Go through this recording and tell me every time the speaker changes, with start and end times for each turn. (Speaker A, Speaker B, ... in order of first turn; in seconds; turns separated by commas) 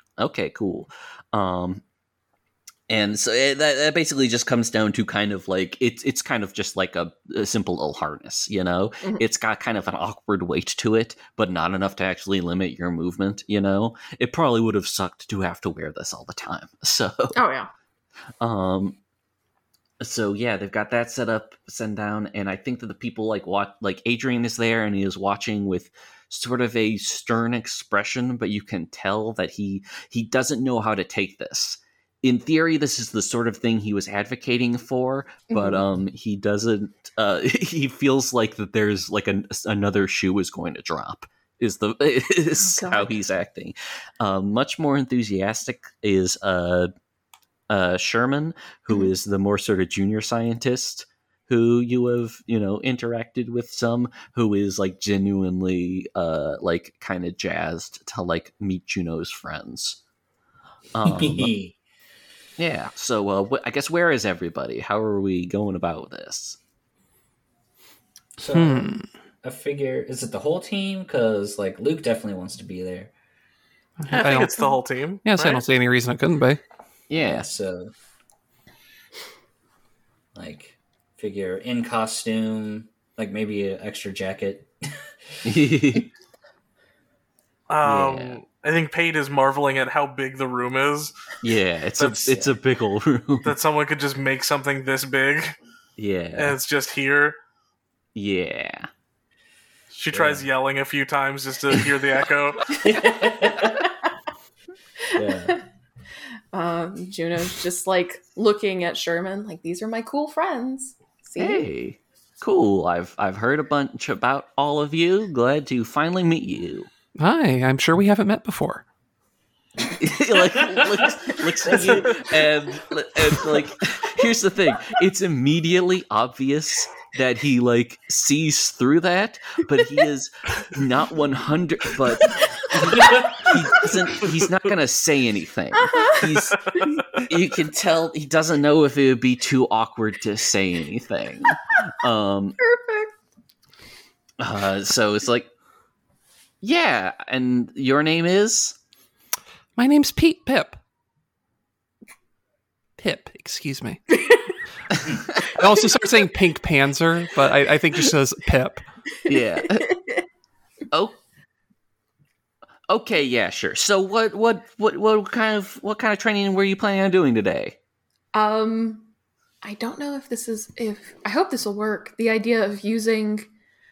Speaker A: 0.2-1.8, Speaker A: 2.9-17.4, Speaker B: 17.4-17.7, Speaker A: 18.4-19.0, Speaker A: 20.0-46.9, Speaker B: 35.5-35.8, Speaker B: 42.6-43.2, Speaker A: 47.7-60.0, Speaker A: 61.0-61.5, Speaker C: 61.0-61.7, Speaker A: 62.6-66.6, Speaker C: 68.4-73.1, Speaker D: 68.5-69.1, Speaker D: 74.0-74.7, Speaker E: 74.1-75.7, Speaker D: 75.2-76.6, Speaker A: 77.1-77.5, Speaker C: 77.2-77.9, Speaker C: 80.3-85.0, Speaker A: 85.4-86.1, Speaker E: 87.7-91.1, Speaker A: 87.8-88.4, Speaker A: 91.4-93.5, Speaker E: 92.0-92.5, Speaker E: 93.4-95.5, Speaker A: 96.0-96.6, Speaker E: 96.3-97.4, Speaker A: 98.2-98.9, Speaker E: 99.9-102.8, Speaker C: 100.1-100.4, Speaker C: 102.7-103.9, Speaker B: 105.1-105.6, Speaker C: 105.2-105.5, Speaker B: 106.5-111.7, Speaker A: 111.4-116.9, Speaker D: 117.2-118.8, Speaker A: 119.9-142.6, Speaker C: 121.7-122.0, Speaker B: 132.4-133.9, Speaker C: 132.9-133.5, Speaker B: 135.8-136.2, Speaker B: 142.6-143.1, Speaker A: 144.4-145.5, Speaker A: 146.6-148.8, Speaker D: 149.8-150.8, Speaker D: 153.0-154.0, Speaker B: 154.1-154.5, Speaker D: 155.5-158.8, Speaker B: 159.2-160.2, Speaker A: 159.3-159.9, Speaker A: 160.9-161.2, Speaker A: 162.9-167.8, Speaker B: 168.3-169.1, Speaker B: 169.6-173.5